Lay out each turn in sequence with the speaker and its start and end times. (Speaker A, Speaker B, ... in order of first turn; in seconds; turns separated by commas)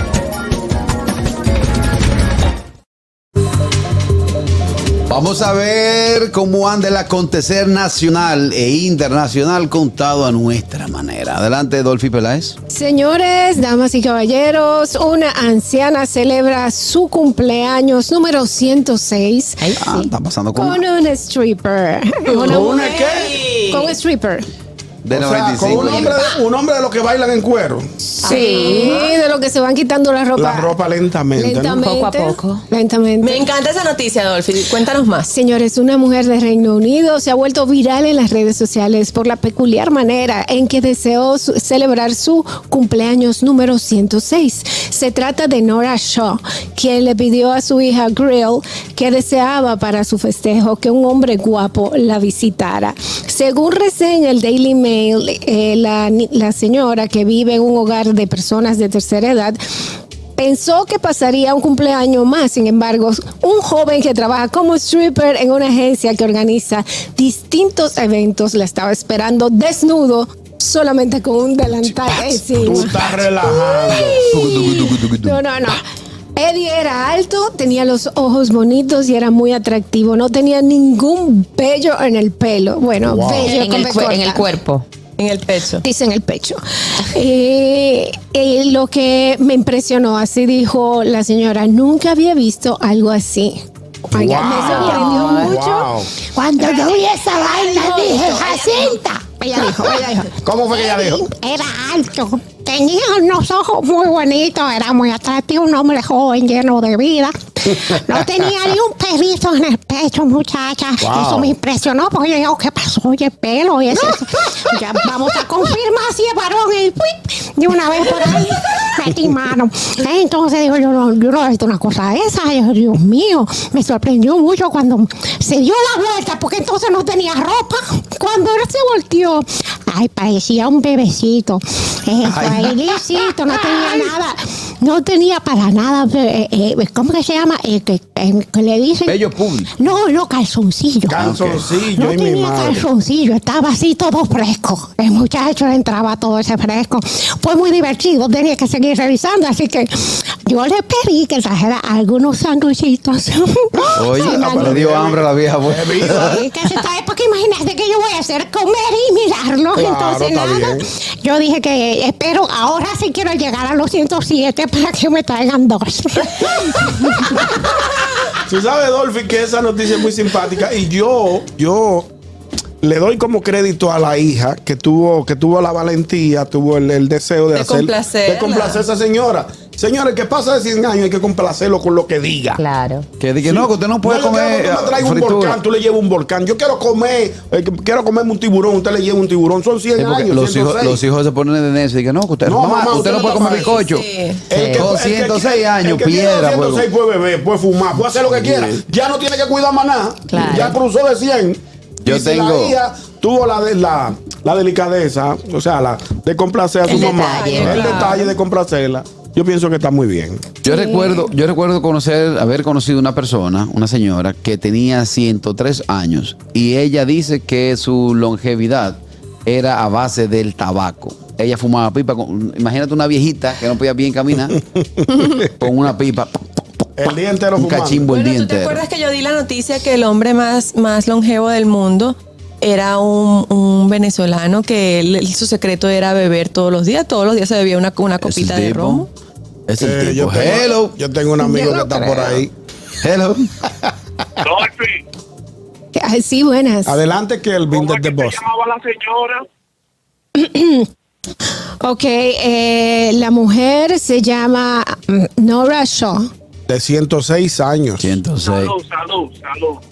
Speaker A: 5.1-12.6, Speaker B: 12.7-19.7, Speaker C: 19.6-20.1, Speaker A: 19.8-20.8, Speaker B: 20.5-24.4, Speaker D: 22.3-23.9, Speaker E: 22.4-23.4, Speaker A: 25.0-26.2, Speaker E: 25.1-27.9, Speaker D: 25.7-26.4, Speaker B: 28.2-30.7, Speaker D: 28.2-29.1, Speaker E: 30.4-31.8, Speaker B: 31.4-33.5, Speaker C: 31.8-32.6, Speaker D: 33.2-35.3, Speaker B: 35.3-59.6, Speaker B: 60.4-75.8, Speaker E: 72.5-74.2, Speaker A: 74.3-75.4, Speaker B: 76.4-84.5, Speaker E: 83.1-83.5, Speaker C: 83.3-84.8, Speaker D: 85.2-85.8, Speaker B: 85.8-93.6, Speaker B: 94.1-95.9, Speaker E: 94.1-96.1, Speaker C: 94.5-95.5, Speaker F: 96.3-100.1, Speaker C: 97.8-98.8, Speaker E: 100.4-101.3, Speaker F: 100.7-141.3, Speaker E: 111.0-111.5, Speaker A: 132.2-132.8, Speaker A: 139.1-139.7, Speaker E: 141.1-142.8, Speaker A: 141.1-141.6, Speaker F: 141.9-153.4, Speaker E: 153.9-156.4, Speaker A: 153.9-156.4, Speaker B: 154.1-154.8, Speaker B: 156.1-156.4, Speaker F: 156.2-167.5, Speaker E: 159.8-160.9, Speaker E: 168.5-172.1, Speaker E: 172.8-182.6, Speaker D: 177.5-178.8, Speaker C: 182.6-183.1, Speaker A: 183.2-185.6, Speaker E: 183.4-191.0, Speaker A: 189.9-194.1, Speaker E: 192.4-193.8, Speaker D: 193.0-194.4, Speaker E: 194.5-210.6, Speaker C: 194.5-194.9, Speaker A: 194.7-196.9, Speaker A: 198.3-198.8, Speaker C: 200.3-200.8, Speaker A: 202.0-202.8, Speaker C: 206.8-208.2, Speaker D: 206.9-208.3, Speaker A: 210.6-224.6, Speaker C: 210.7-211.1, Speaker A: 225.6-226.4, Speaker E: 227.0-228.1, Speaker A: 227.6-228.8, Speaker D: 228.1-239.1, Speaker A: 238.2-239.1, Speaker A: 239.7-240.9, Speaker E: 239.8-242.5, Speaker B: 241.4-242.4, Speaker A: 243.0-243.5, Speaker G: 244.4-244.9, Speaker B: 245.9-247.0, Speaker E: 246.9-248.4, Speaker G: 247.7-249.4, Speaker B: 250.4-250.9, Speaker B: 251.8-256.3, Speaker E: 256.7-258.2, Speaker A: 258.0-258.8, Speaker G: 258.4-259.8